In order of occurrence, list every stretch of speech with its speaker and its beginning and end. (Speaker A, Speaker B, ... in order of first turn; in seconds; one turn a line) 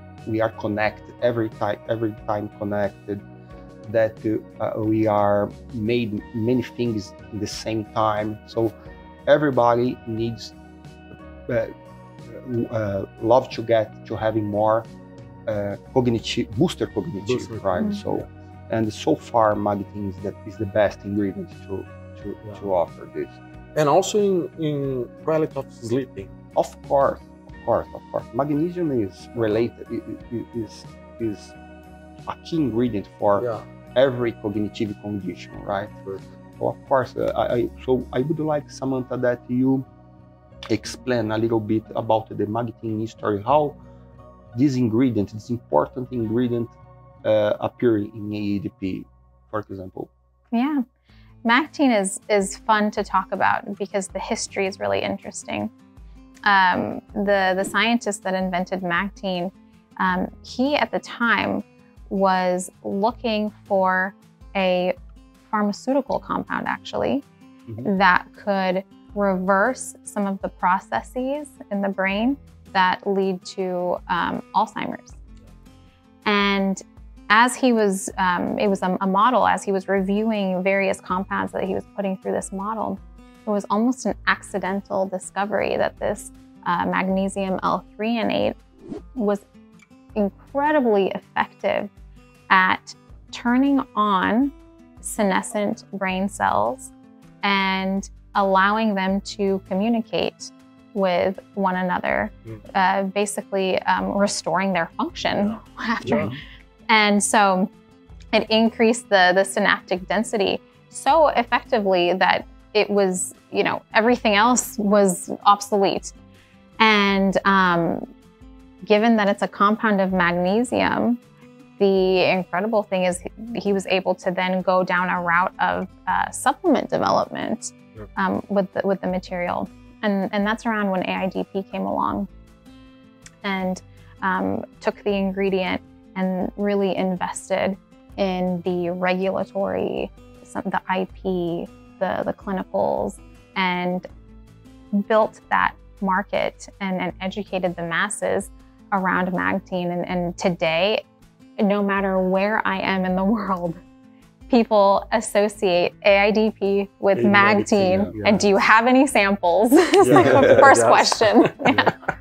Speaker A: 0.3-3.2
Speaker A: 3.9-8.7
Speaker A: 9.3-10.6
Speaker A: 11.5-11.7
Speaker A: 12.3-14.9
Speaker A: 15.5-23.4
Speaker B: 17.2-18.2
Speaker C: 17.8-18.0
Speaker B: 23.8-26.3
Speaker A: 26.5-31.5
Speaker A: 32.2-36.0
Speaker B: 33.4-33.7
Speaker A: 36.6-39.9
Speaker A: 40.7-43.8
Speaker A: 44.5-50.1
Speaker C: 50.5-50.8
Speaker C: 51.5-55.7
Speaker C: 56.5-65.0
Speaker C: 65.5-67.2
Speaker C: 67.8-75.2
Speaker C: 76.3-88.6
Speaker C: 89.2-89.4
Speaker C: 90.2-91.9
Speaker C: 92.5-96.9
Speaker C: 97.4-106.3
Speaker B: 105.4-106.3
Speaker A: 106.1-106.4
Speaker C: 106.9-107.7
Speaker C: 108.3-116.1
Speaker C: 116.8-118.1
Speaker C: 118.8-121.2
Speaker C: 121.8-132.3
Speaker C: 133.4-144.1
Speaker C: 144.9-151.0
Speaker C: 151.6-153.8
Speaker C: 154.5-161.9
Speaker B: 157.1-158.5
Speaker A: 157.8-158.2
Speaker B: 160.0-161.9
Speaker A: 160.1-160.7